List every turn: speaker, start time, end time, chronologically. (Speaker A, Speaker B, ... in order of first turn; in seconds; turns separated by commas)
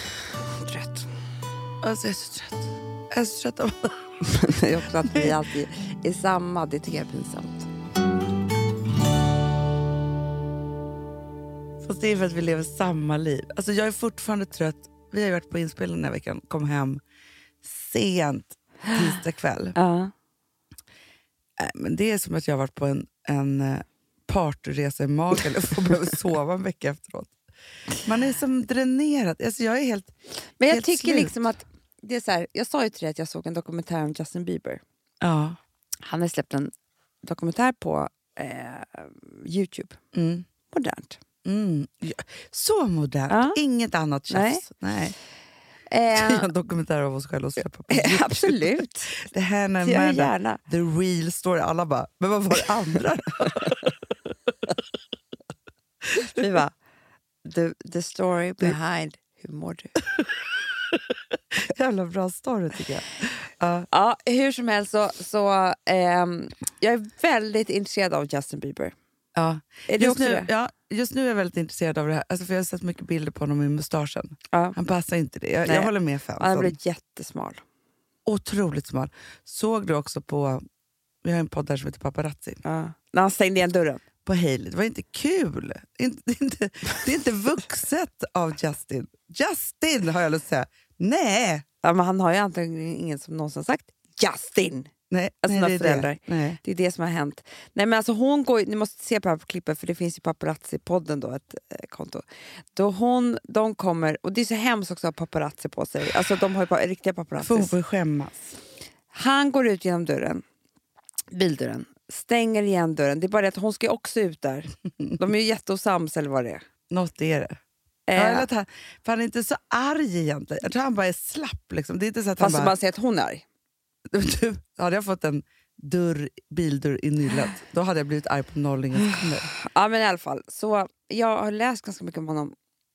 Speaker A: 0.5-1.1, Speaker B: 1.8-4.2, Speaker A: 4.2-7.7, Speaker B: 5.1-5.4, Speaker B: 11.8-17.0, Speaker B: 17.6-19.8, Speaker A: 19.8-20.1, Speaker B: 21.6-27.4, Speaker B: 28.0-30.1, Speaker A: 30.6-34.8, Speaker B: 30.7-31.5, Speaker B: 35.2-35.6, Speaker A: 36.0-36.7, Speaker A: 37.2-40.0, Speaker B: 40.1-40.5, Speaker A: 40.7-41.2, Speaker B: 41.5-45.1, Speaker A: 43.3-43.6, Speaker A: 44.3-44.7, Speaker A: 45.9-46.5, Speaker B: 46.1-53.9, Speaker A: 47.9-49.2, Speaker A: 49.8-50.6, Speaker A: 56.3-56.8, Speaker A: 57.4-60.0, Speaker B: 61.7-63.9, Speaker A: 63.9-68.9, Speaker B: 69.3-76.8, Speaker A: 69.9-70.5, Speaker A: 75.6-77.6, Speaker B: 78.3-80.6, Speaker B: 81.2-82.6, Speaker A: 82.6-84.0, Speaker B: 84.3-91.7, Speaker A: 91.8-94.9, Speaker B: 95.1-96.6, Speaker A: 95.4-107.8, Speaker B: 107.4-108.5, Speaker A: 109.1-110.4, Speaker A: 111.3-116.6, Speaker B: 116.9-117.6, Speaker A: 118.1-118.5, Speaker B: 118.2-122.7, Speaker A: 122.4-123.4, Speaker B: 124.1-129.5, Speaker A: 129.0-132.5